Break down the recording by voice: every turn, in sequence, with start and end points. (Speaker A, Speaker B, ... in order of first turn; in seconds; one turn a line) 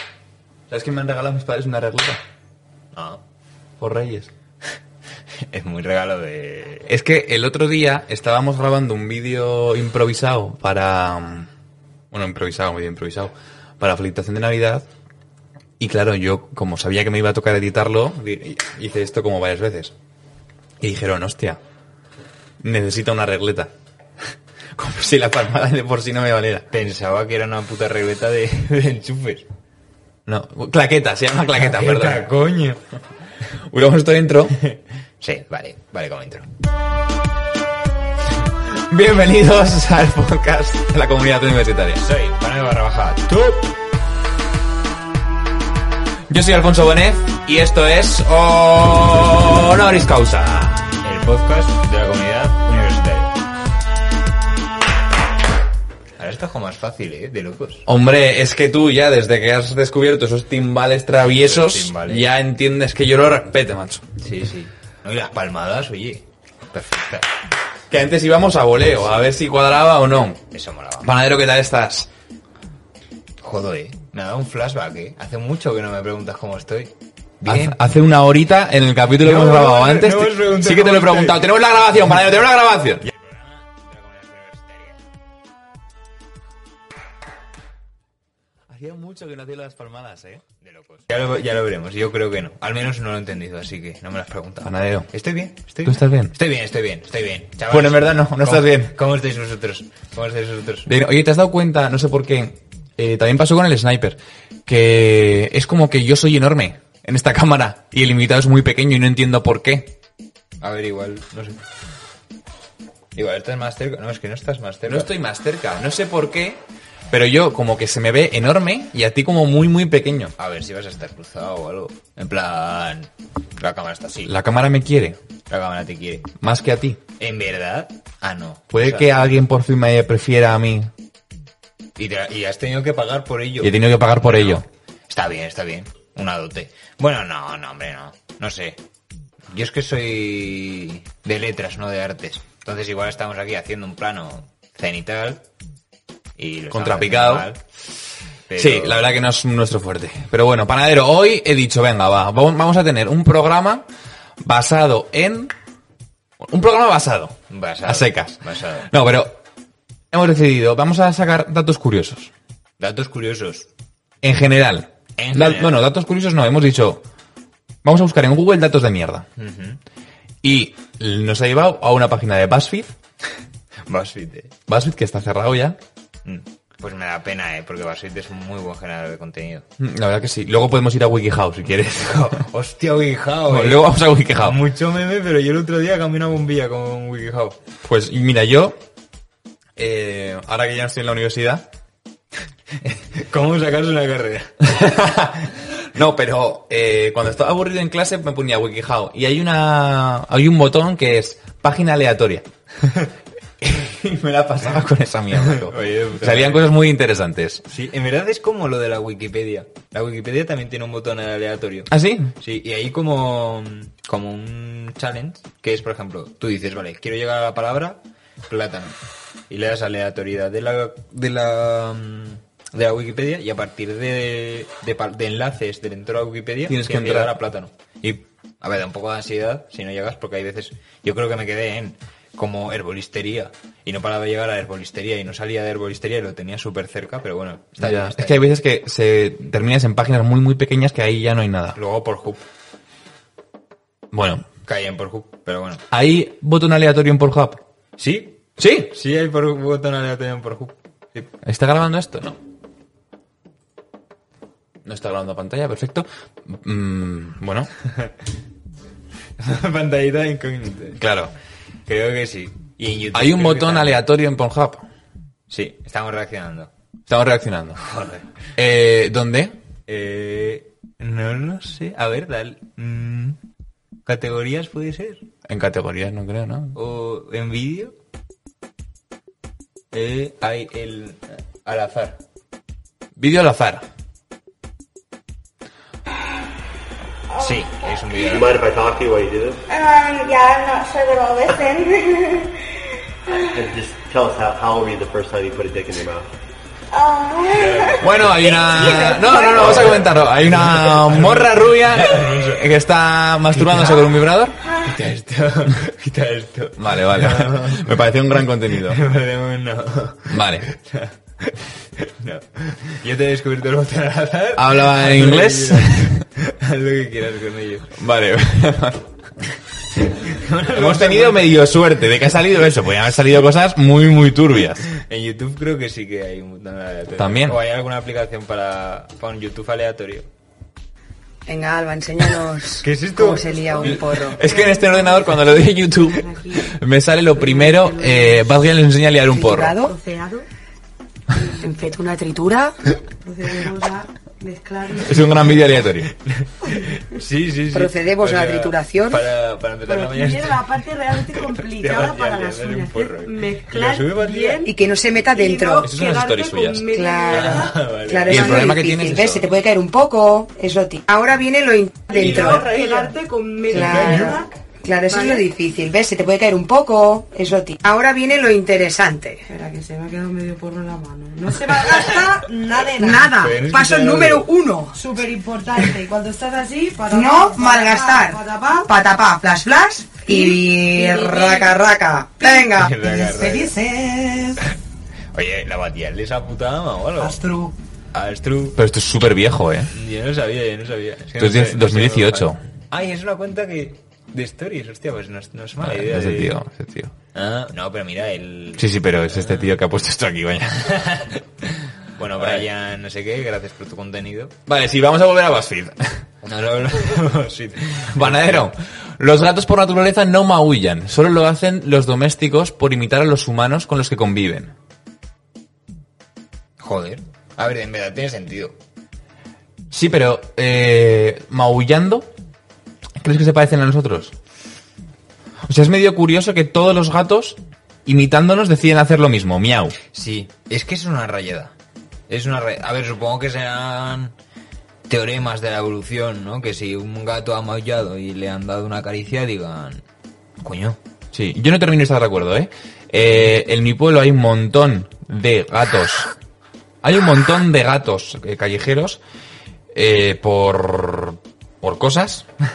Speaker A: 0.7-2.2
Speaker B: 2.9-3.2
Speaker A: 3.8-4.3
Speaker B: 5.5-6.9
Speaker A: 6.9-11.5
Speaker A: 12.1-14.9
Speaker A: 15.8-19.9
Speaker A: 20.8-21.6
Speaker A: 22.6-23.7
Speaker A: 24.8-26.7
Speaker B: 26.7-29.5
Speaker A: 30.2-32.3
Speaker B: 31.5-32.8
Speaker A: 33.5-34.6
Speaker B: 34.7-36.5
Speaker A: 38.7-42.0
Speaker B: 41.9-43.7
Speaker A: 46.3-50.9
Speaker B: 51.0-53.3
Speaker B: 56.2-57.9
Speaker A: 57.9-64.0
Speaker B: 61.2-62.3
Speaker B: 64.2-67.3
Speaker A: 67.9-70.4
Speaker B: 70.5-71.1
Speaker A: 71.0-72.1
Speaker B: 73.4-77.8
Speaker A: 77.5-83.0
Speaker B: 79.2-81.5
Speaker B: 83.0-85.0
Speaker A: 88.7-90.4
Speaker B: 90.6-100.9
Speaker A: 94.6-95.1
Speaker A: 95.8-96.3
Speaker A: 97.7-98.9
Speaker A: 100.8-110.0
Speaker B: 110.6-111.6
Speaker B: 113.1-115.1
Speaker A: 114.8-120.3
Speaker B: 120.4-124.3
Speaker A: 124.2-125.2
Speaker B: 125.5-126.3
Speaker A: 126.4-127.0
Speaker B: 127.2-129.2
Speaker A: 128.7-130.9
Speaker B: 132.0-138.8
Speaker A: 133.6-134.7
Speaker B: 139.5-145.4
Speaker B: 146.4-147.6
Speaker A: 146.7-147.5
Speaker B: 148.5-149.2
Speaker A: 148.6-153.9
Speaker A: 154.4-155.5
Speaker A: 156.4-159.4
Speaker B: 157.5-158.9
Speaker A: 160.1-162.3
Speaker B: 162.8-163.7
Speaker A: 164.2-167.0
Speaker B: 165.2-165.8
Speaker A: 167.8-169.2
Speaker B: 169.3-169.8
Speaker A: 170.4-172.9
Speaker B: 173.9-174.5
Speaker A: 174.7-175.8
Speaker B: 176.2-179.7
Speaker A: 179.8-182.4
Speaker B: 181.8-187.6
Speaker A: 183.4-184.6
Speaker A: 187.8-188.8
Speaker A: 189.8-191.7
Speaker B: 192.8-194.7
Speaker A: 194.6-202.5
Speaker A: 203.6-207.6
Speaker B: 205.4-206.7
Speaker B: 207.7-218.9
Speaker A: 211.9-212.3
Speaker B: 219.5-238.4
Speaker A: 226.7-227.4
Speaker A: 237.8-241.8
Speaker B: 241.7-242.4
Speaker A: 244.1-244.4
Speaker B: 244.6-245.8
Speaker A: 245.9-247.6
Speaker B: 248.0-251.3
Speaker A: 248.6-248.9
Speaker A: 251.4-252.4
Speaker A: 254.8-257.7
Speaker B: 257.9-258.1
Speaker B: 259.4-261.0
Speaker A: 261.0-261.3
Speaker B: 261.9-264.1
Speaker A: 263.1-264.9
Speaker B: 265.5-266.7
Speaker A: 267.1-267.8
Speaker B: 267.8-268.3
Speaker A: 268.6-269.6
Speaker B: 269.9-273.4
Speaker B: 274.1-275.2
Speaker A: 275.5-276.8
Speaker B: 276.7-277.9
Speaker B: 279.9-282.2
Speaker A: 283.1-283.8
Speaker C: 287.3-288.4
Speaker B: 287.4-288.6
Speaker D: 288.3-289.6
Speaker C: 289.7-292.6
Speaker D: 293.5-296.3
Speaker C: 296.9-299.8
Speaker B: 297.5-302.7
Speaker A: 298.0-304.6
Speaker B: 303.5-304.1
Speaker B: 304.8-318.0
Speaker A: 306.8-309.0
Speaker A: 310.3-310.7
Speaker A: 314.5-316.2
Speaker A: 317.9-319.1
Speaker B: 319.9-321.5
Speaker A: 320.7-324.9
Speaker B: 324.9-330.3
Speaker A: 327.1-327.6
Speaker E: 331.4-334.8
Speaker B: 332.8-333.9
Speaker F: 333.7-336.7
Speaker A: 333.8-339.8
Speaker F: 337.4-338.5
Speaker E: 339.3-339.9
Speaker F: 339.8-340.5
Speaker E: 341.6-342.8
Speaker F: 343.2-345.6
Speaker A: 345.0-346.1
Speaker B: 346.1-354.7
Speaker E: 347.7-349.2
Speaker F: 349.9-357.8
Speaker E: 354.6-355.9
Speaker A: 355.8-356.9
Speaker E: 356.9-362.7
Speaker B: 357.3-358.8
Speaker A: 358.3-359.5
Speaker F: 362.1-364.5
Speaker B: 362.1-363.1
Speaker E: 363.7-369.4
Speaker B: 363.7-364.4
Speaker F: 365.1-365.4
Speaker F: 369.5-373.5
Speaker B: 371.8-372.3
Speaker E: 373.0-375.0
Speaker B: 373.3-374.5
Speaker F: 374.9-378.9
Speaker E: 377.1-383.6
Speaker F: 380.3-381.8
Speaker F: 382.4-382.7
Speaker B: 382.8-384.7
Speaker B: 385.3-388.8
Speaker A: 388.8-389.9
Speaker B: 389.9-396.6
Speaker A: 391.4-392.6
Speaker A: 395.8-397.1
Speaker B: 397.3-399.6
Speaker A: 398.8-401.1
Speaker B: 400.9-404.5
Speaker A: 402.4-402.6
Speaker A: 404.6-406.2
Speaker B: 406.4-408.7
Speaker A: 408.1-414.7
Speaker B: 416.8-418.8
Speaker A: 419.9-422.3
Speaker A: 423.2-424.3
Speaker A: 425.6-430.0
Speaker B: 430.1-431.7
Speaker B: 432.3-434.3
Speaker B: 435.1-440.0
Speaker B: 440.6-441.0
Speaker A: 441.3-446.3
Speaker B: 443.2-443.6
Speaker A: 447.0-449.2
Speaker A: 449.9-452.4